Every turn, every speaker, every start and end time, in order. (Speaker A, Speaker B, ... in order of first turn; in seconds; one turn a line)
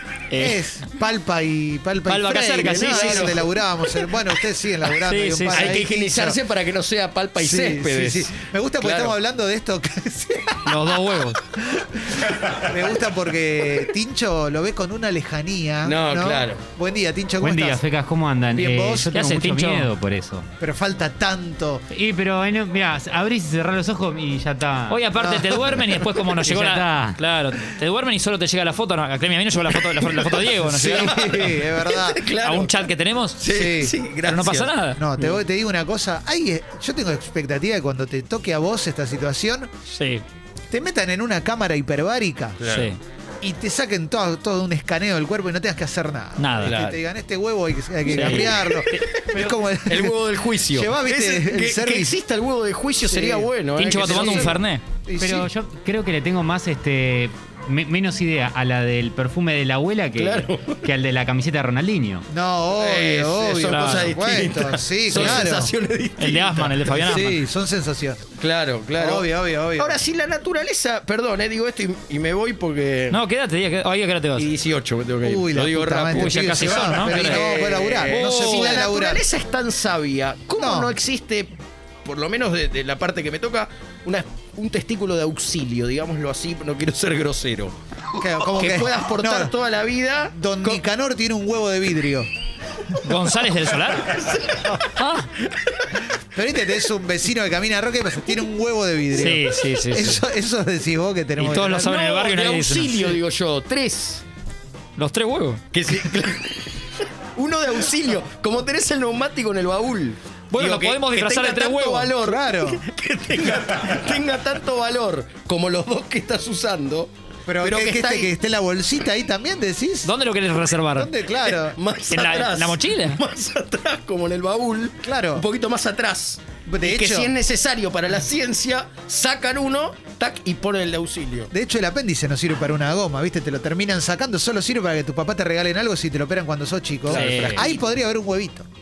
Speaker A: 0.3-0.7
Speaker B: 0.3-6.4
Speaker A: 2.0-3.4
Speaker C: 2.6-4.1
Speaker A: 5.0-5.8
Speaker C: 5.5-9.2
Speaker B: 7.4-17.8
Speaker A: 10.6-11.4
Speaker C: 15.8-16.6
Speaker D: 17.4-20.5
Speaker B: 18.5-19.1
Speaker A: 19.1-19.9
Speaker B: 20.6-21.8
Speaker D: 21.9-25.0
Speaker A: 24.9-31.5
Speaker B: 25.1-25.6
Speaker D: 26.4-27.2
Speaker C: 30.1-32.8
Speaker B: 30.6-32.2
Speaker A: 32.4-33.4
Speaker C: 33.4-35.4
Speaker B: 33.5-34.0
Speaker A: 34.2-35.0
Speaker B: 35.0-39.7
Speaker A: 39.9-40.2
Speaker B: 40.7-42.6
Speaker C: 42.6-42.9
Speaker A: 42.6-43.0
Speaker B: 43.4-50.2
Speaker A: 46.4-46.8
Speaker C: 46.6-47.0
Speaker C: 48.1-54.6
Speaker A: 48.1-49.0
Speaker B: 50.7-52.2
Speaker B: 53.0-55.5
Speaker A: 53.8-54.8
Speaker D: 55.2-62.2
Speaker C: 60.1-60.9
Speaker B: 62.3-65.7
Speaker C: 62.7-67.3
Speaker A: 63.6-64.2
Speaker A: 65.1-65.4
Speaker A: 66.2-67.4
Speaker B: 66.8-68.3
Speaker C: 68.4-73.2
Speaker B: 69.0-70.0
Speaker A: 73.1-74.5
Speaker C: 74.4-81.5
Speaker B: 75.2-79.2
Speaker A: 76.1-77.5
Speaker A: 78.1-78.8
Speaker B: 80.6-80.9
Speaker C: 82.0-87.8
Speaker B: 88.2-89.5
Speaker C: 88.4-90.8
Speaker B: 90.3-92.3
Speaker A: 93.0-94.2
Speaker C: 94.0-94.8
Speaker A: 95.0-95.3
Speaker B: 96.3-101.9
Speaker A: 99.1-100.2
Speaker A: 101.4-103.2
Speaker C: 101.6-104.2
Speaker A: 105.0-105.6
Speaker C: 105.7-106.8
Speaker C: 107.3-117.1
Speaker A: 110.5-112.1
Speaker B: 112.2-112.8
Speaker B: 117.5-120.1
Speaker C: 117.6-118.3
Speaker A: 120.0-121.1
Speaker B: 120.9-121.8
Speaker C: 121.3-131.5
Speaker A: 122.1-123.2
Speaker B: 125.0-125.5
Speaker B: 126.7-127.3
Speaker B: 131.5-138.7
Speaker C: 137.1-137.8
Speaker A: 137.1-137.7